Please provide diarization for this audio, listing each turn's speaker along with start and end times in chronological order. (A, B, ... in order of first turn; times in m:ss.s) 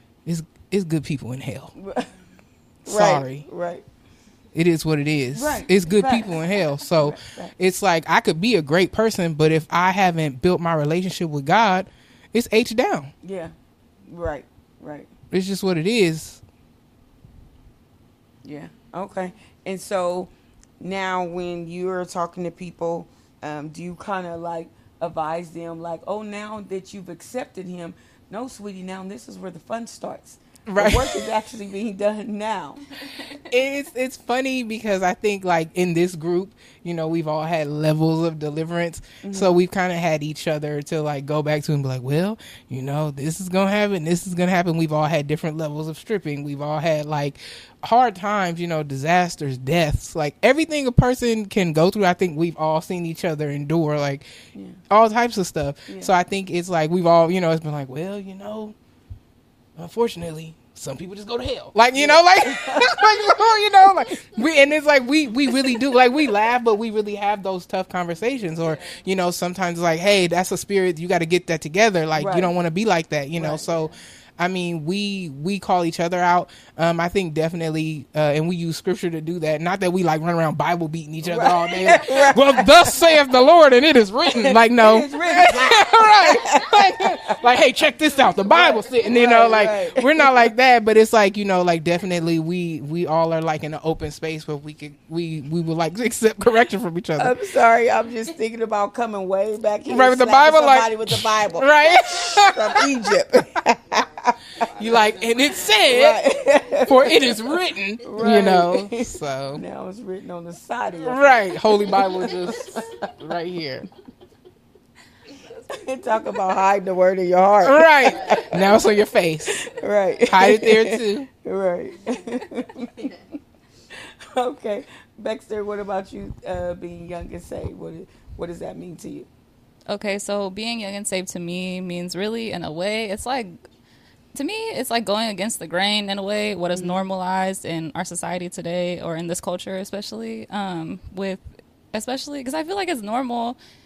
0:00.2-0:01.7 A
0:01.8-0:02.1 B
0:02.8-0:03.5 A
0:02.9-0:03.8 B
0:04.5-0:13.1 A
0:05.3-0:07.5 B
0:13.2-0:13.5 B
0:14.1-0:15.1 B
0:15.3-0:16.4 A
0:18.4-0:32.8 B
0:30.6-0:31.3 A
0:33.5-0:54.2 A
0:39.2-0:39.6 B
0:54.6-0:54.8 B
0:54.9-0:58.8 A
0:55.9-0:56.1 B
0:59.8-1:37.4 A
1:01.9-1:03.3 B
1:12.2-1:12.5 B
1:13.3-1:13.6 B
1:21.2-1:22.9 B
1:24.3-1:27.4 B
1:28.5-1:30.5 B
1:37.2-1:45.0 B
1:39.9-1:43.2 A
1:44.6-1:46.2 A
1:45.8-1:53.1 B
1:46.8-1:49.6 A
1:51.0-1:53.9 A
1:55.7-1:58.7 B
1:57.6-1:59.7 A
1:59.5-2:03.2 B
2:00.3-2:01.3 A
2:03.9-2:09.3 B
2:09.9-2:13.6 C
2:14.3-2:23.6 C
2:16.8-2:17.0 B